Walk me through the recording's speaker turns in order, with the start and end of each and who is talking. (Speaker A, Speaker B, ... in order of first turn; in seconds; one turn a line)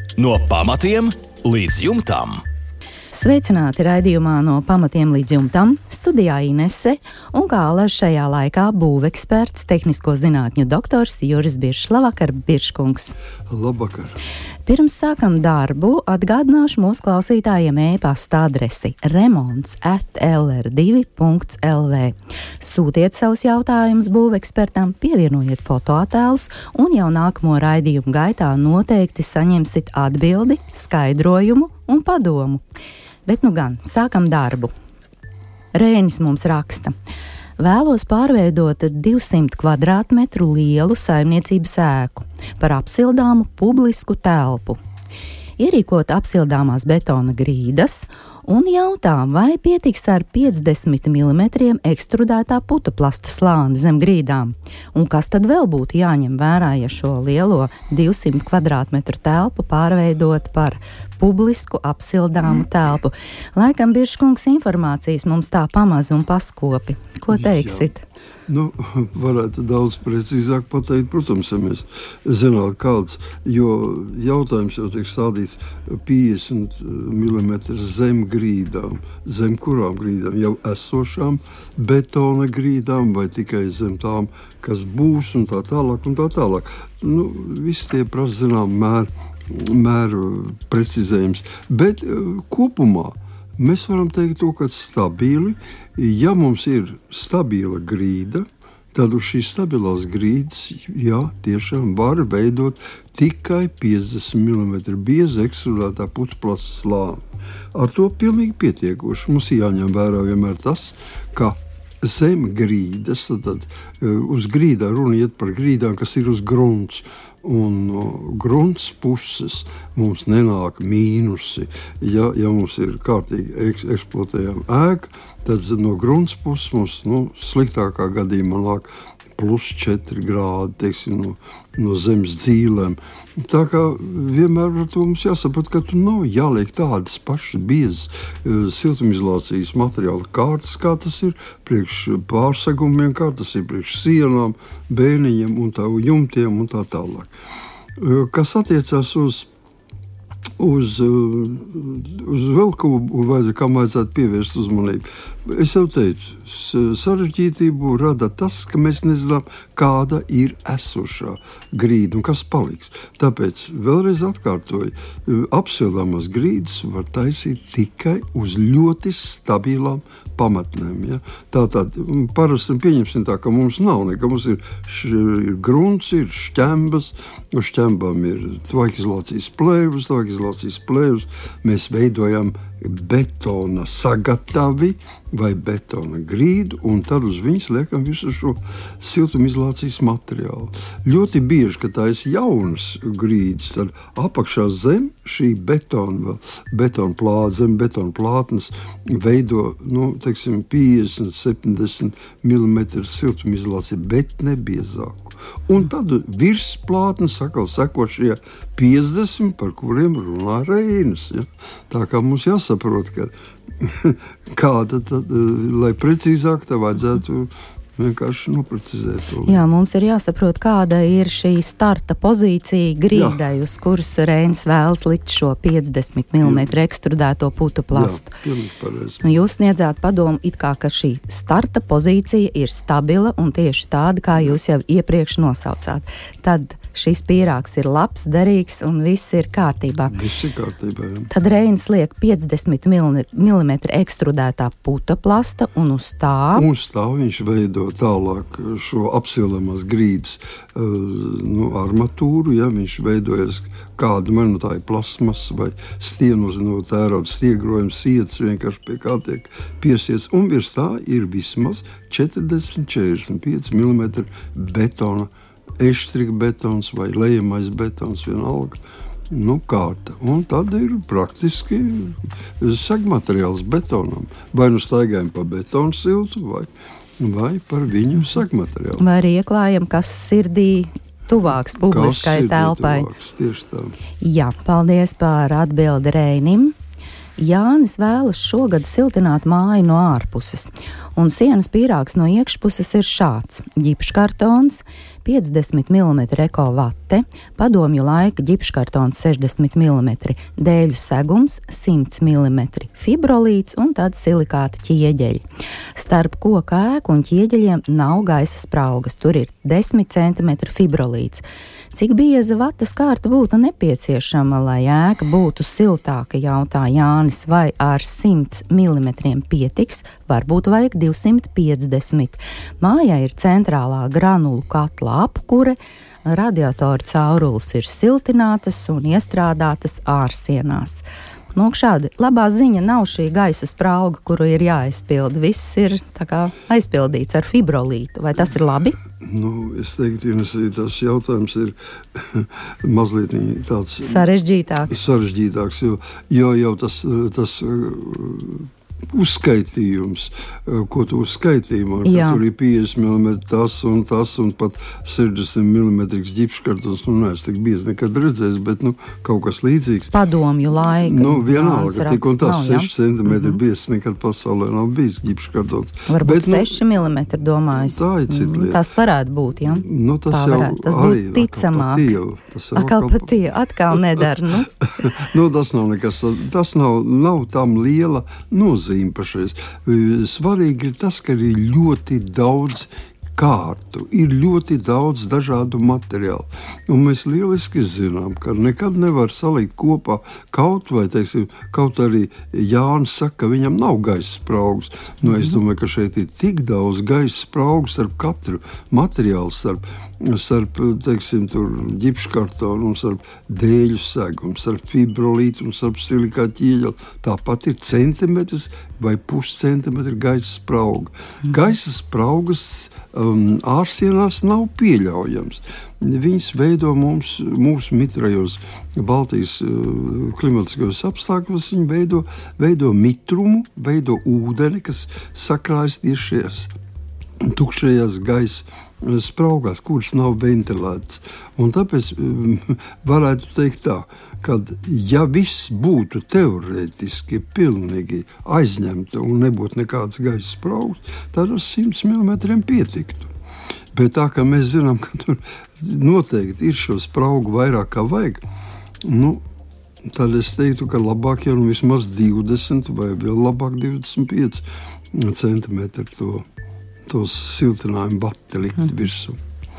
Speaker A: 0.2-2.4
Speaker B: 3.1-13.2
Speaker C: 13.5-14.2
Speaker B: 14.7-32.6
Speaker B: 33.3-34.7
Speaker B: 35.8-36.9
Speaker B: 37.6-44.8
Speaker B: 45.6-68.0
Speaker C: 67.3-67.9
Speaker C: 68.5-107.2
Speaker C: 107.7-147.3
Speaker C: 148.0-149.5
Speaker C: 150.6-219.6
Speaker B: 219.5-228.4
Speaker C: 223.1-223.4
Speaker C: 226.4-226.7
Speaker C: 227.9-229.2
Speaker B: 229.2-240.1
Speaker C: 240.1-241.3
Speaker B: 241.3-246.7
Speaker C: 246.6-279.1
Speaker B: 279.0-283.1
Speaker C: 281.8-284.0
Speaker B: 284.2-286.8
Speaker B: 287.4-305.4
Speaker B: 306.0-339.0
Speaker C: 339.2-344.3
Speaker B: 344.0-345.0
Speaker C: 344.9-360.1
Speaker B: 352.1-352.4
Speaker B: 360.1-363.6
Speaker C: 360.9-366.8
Speaker B: 366.1-372.1
Speaker C: 367.7-368.9
Speaker C: 369.7-373.3
Speaker B: 372.7-374.7
Speaker C: 373.9-374.3
Speaker C: 374.8-426.8
Speaker C: 427.4-443.3
Speaker C: 443.9-448.4
Speaker C: 449.0-449.4
Speaker C: 450.0-456.5
Speaker C: 457.1-459.4